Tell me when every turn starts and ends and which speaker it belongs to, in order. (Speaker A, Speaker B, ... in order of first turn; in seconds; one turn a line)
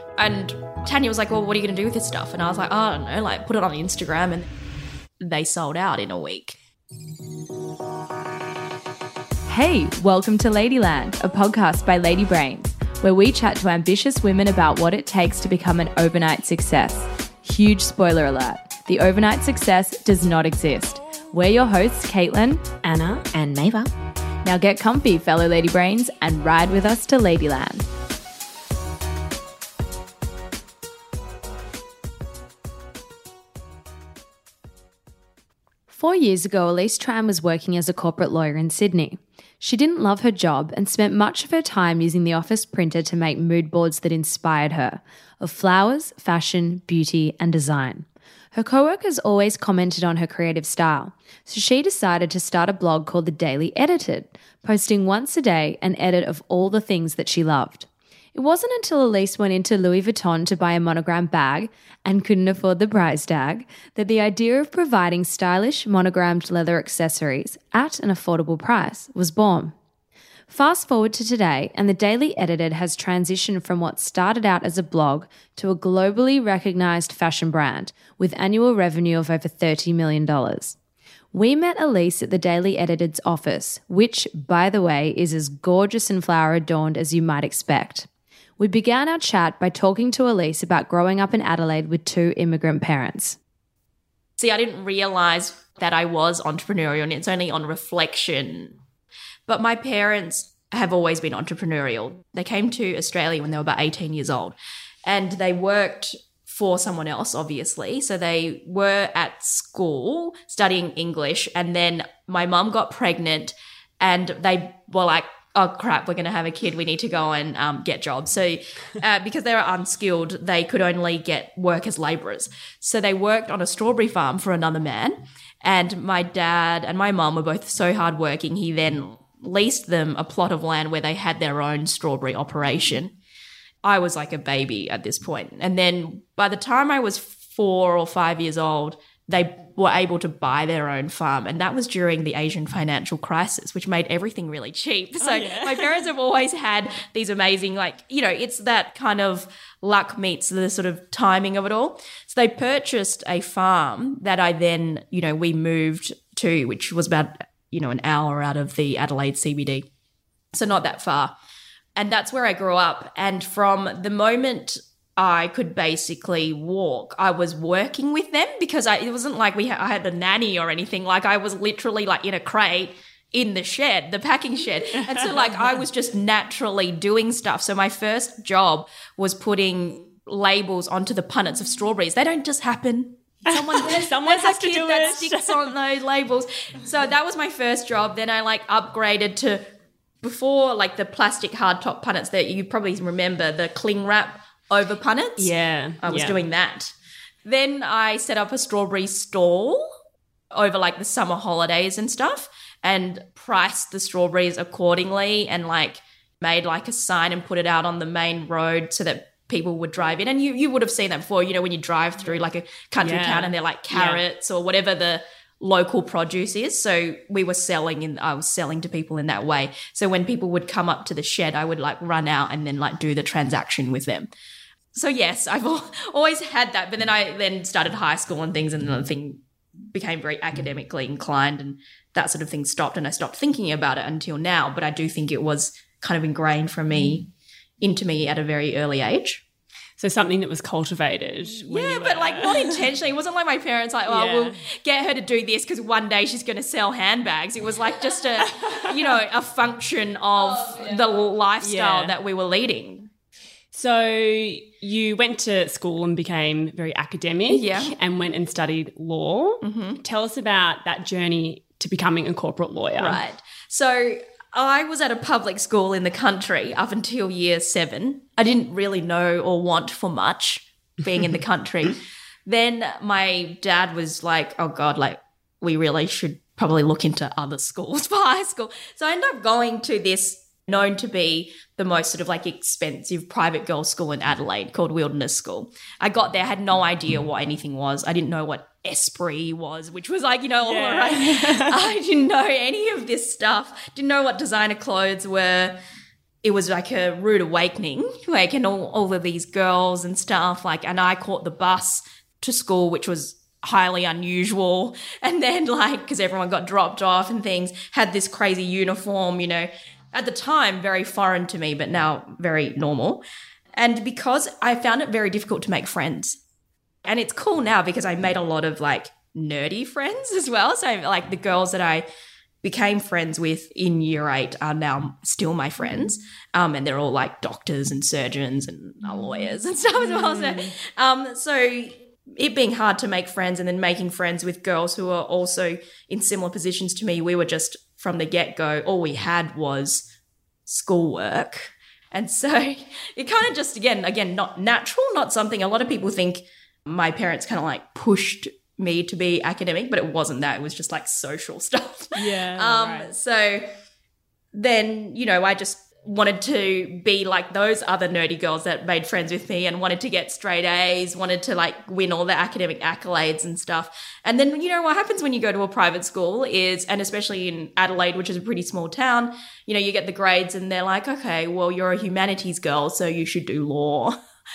Speaker A: 0.2-4.5
Speaker A: 5.2-6.6
Speaker B: 9.5-23.9
Speaker B: 24.4-27.9
Speaker B: 35.9-69.8
Speaker B: 70.5-80.8
Speaker B: 81.3-93.4
Speaker A: 94.4-98.8
Speaker A: 99.5-104.5
Speaker A: 105.1-133.2
Speaker A: 133.8-159.9
Speaker C: 145.2-146.1
Speaker A: 160.5-161.3
Speaker A: 162.0-189.6
Speaker C: 175.0-175.8
Speaker C: 183.5-185.7
Speaker A: 190.2-196.9
Speaker C: 195.4-196.4
Speaker A: 197.4-199.9
Speaker A: 200.5-224.3
Speaker C: 213.0-214.2
Speaker A: 224.9-237.3
Speaker A: 237.8-239.4
Speaker C: 240.0-242.8
Speaker A: 241.6-253.1
Speaker C: 244.1-244.6
Speaker C: 248.6-249.1
Speaker C: 251.6-252.1
Speaker C: 253.7-263.2
Speaker A: 257.5-257.9
Speaker A: 259.6-260.0
Speaker A: 263.0-295.8
Speaker C: 290.6-291.8
Speaker A: 296.4-313.2
Speaker A: 313.8-316.4
Speaker A: 317.1-322.1
Speaker A: 322.6-340.1
Speaker C: 330.0-330.7
Speaker A: 340.7-353.7
Speaker C: 352.1-353.1
Speaker A: 354.5-374.2